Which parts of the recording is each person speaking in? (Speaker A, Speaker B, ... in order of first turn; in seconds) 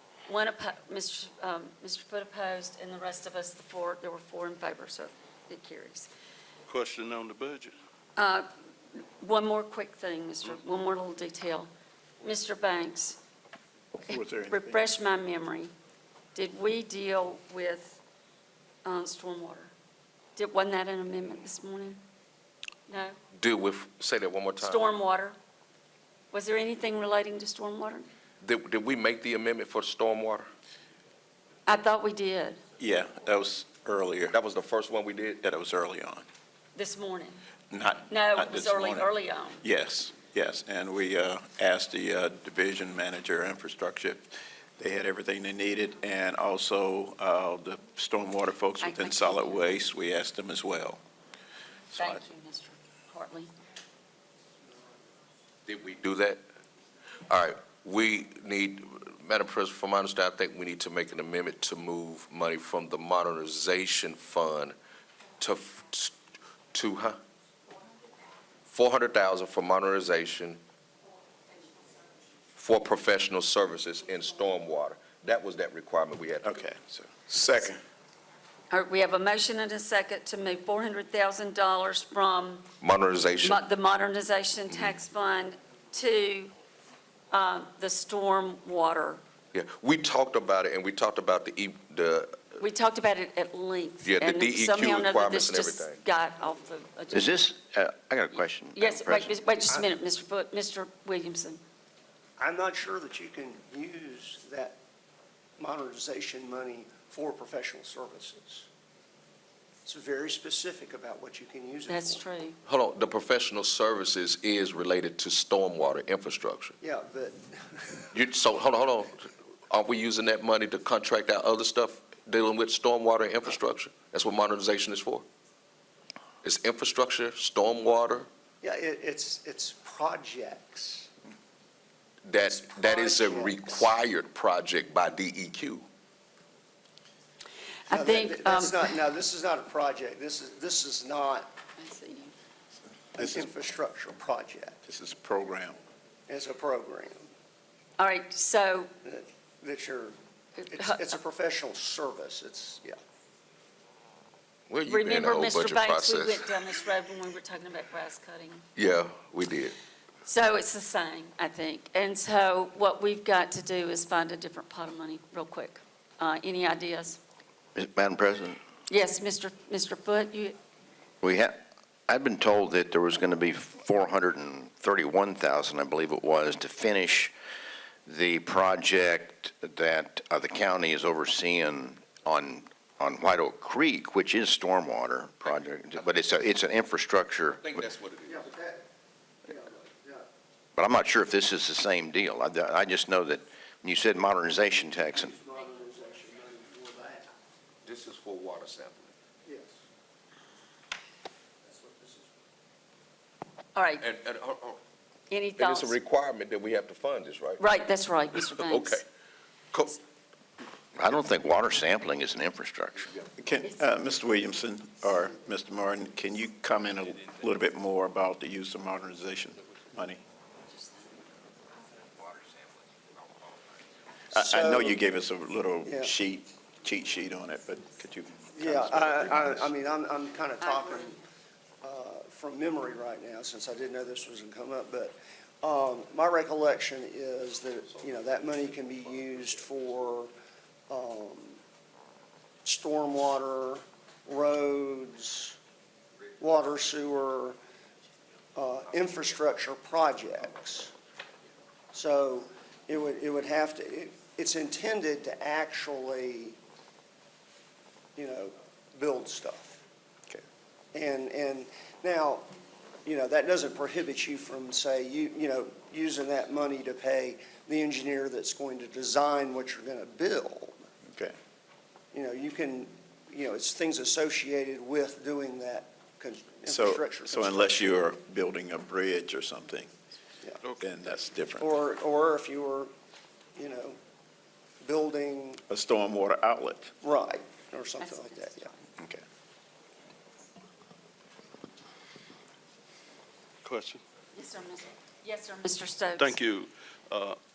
Speaker A: 0.3-6.1, 8.2-11.7, 12.2-13.2, 14.1-15.7, 16.4-18.0, 18.8-19.7, 20.4-22.0, 22.9-23.2, 24.6-25.4, 26.3-28.1, 31.7-32.6, 36.8-37.4, 38.1-39.6, 48.8-49.8, 52.0-53.5, 78.7-82.7, 83.4-86.5, 87.3-89.2, 92.6-97.3, 98.8-101.6, 111.9-112.6, 137.9-138.9, 141.8-142.3, 148.0-148.9, 150.6-151.2, 154.9-158.7, 160.3-167.2, 168.9-170.6, 203.8-204.1, 205.3-205.9, 207.6-209.0, 230.6-231.2, 294.3-296.4
Speaker B: 6.7-7.8, 280.6-280.9, 293.6-294.0, 296.2-297.4
Speaker C: 14.0-14.9, 32.8-34.4, 35.4-36.2, 37.7-39.1, 39.6-51.0, 76.4-77.8, 143.2-143.5, 144.8-145.8, 213.4-220.2, 224.3-229.7, 271.1-271.4, 276.7-279.9, 280.8-281.7, 285.7-286.9, 289.0-289.2
Speaker D: 23.3-24.9, 28.4-30.5, 34.3-35.4, 55.7-56.4, 57.3-64.8, 65.4-66.2, 66.7-67.2, 68.7-70.6, 72.5-76.5, 82.8-83.6, 84.7-85.0, 89.5-92.6, 94.0-96.0, 112.7-116.8, 118.1-125.2, 126.4-128.3, 132.3-135.8, 154.7-156.5, 158.8-159.8, 187.6-188.5, 197.8-199.1, 204.0-204.8, 205.6-207.6, 208.3-209.0, 209.7-210.0
Speaker E: 97.1-99.4, 167.8-168.6, 171.2-177.3, 178.1-187.8, 190.8-195.3, 211.0-213.1
Speaker F: 102.4-104.8, 105.6-108.7, 109.8-112.2, 116.8-118.1, 128.6-131.1, 132.4-133.9, 137.9-141.5, 143.2-144.8, 146.3-147.3, 149.0-150.2, 150.7-153.0, 188.3-188.8, 189.4-190.3, 195.2-197.3, 199.5-199.8, 201.6-202.3, 224.3-225.0, 225.8-226.1, 228.5-231.2, 231.8-240.3, 240.9-241.6, 242.7-245.6, 246.4-247.6, 248.6-250.9, 251.9-256.6, 258.2-259.8, 260.9-262.5, 263.1-270.8, 272.1-278.0, 281.6-282.9, 283.6-284.0, 284.8-285.6, 287.0-288.7